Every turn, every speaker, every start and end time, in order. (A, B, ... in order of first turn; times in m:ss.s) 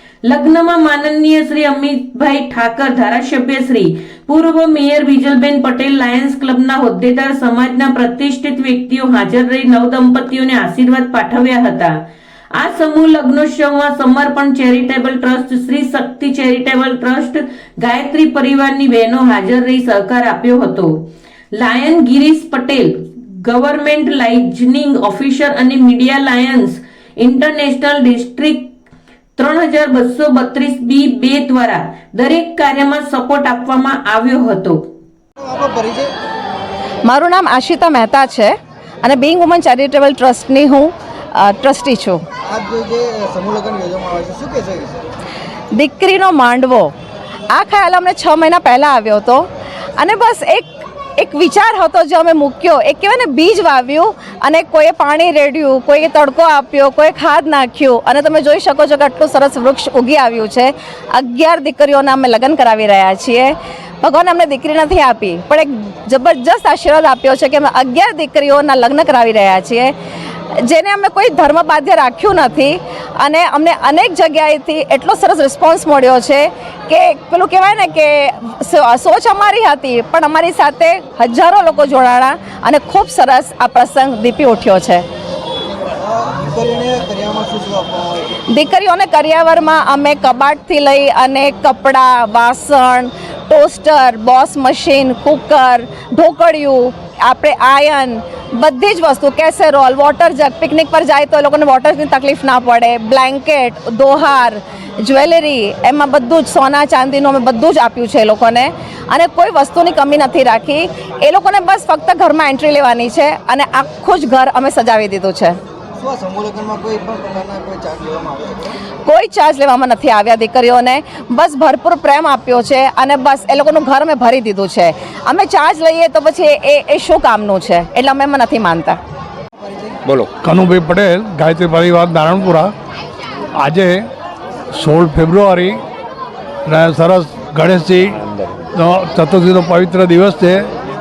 0:00.3-0:12.0 A
0:12.6-0:21.0 A
0:21.6-0:28.7 A
0:29.4-0:34.9 A
0:35.4-0:36.1 B
0:37.1-0:42.2 C
0:42.5-0:45.0 B
0:45.7-0:46.9 C
0:47.5-0:49.5 C
0:50.0-1:09.9 C
1:10.6-1:25.0 C
1:26.0-1:28.3 B
1:28.5-1:55.6 C
1:56.0-1:58.8 B
1:59.0-2:09.0 C
2:10.2-2:12.7 D
2:13.6-2:14.1 D
2:14.7-2:15.8 D
2:16.7-2:20.7 D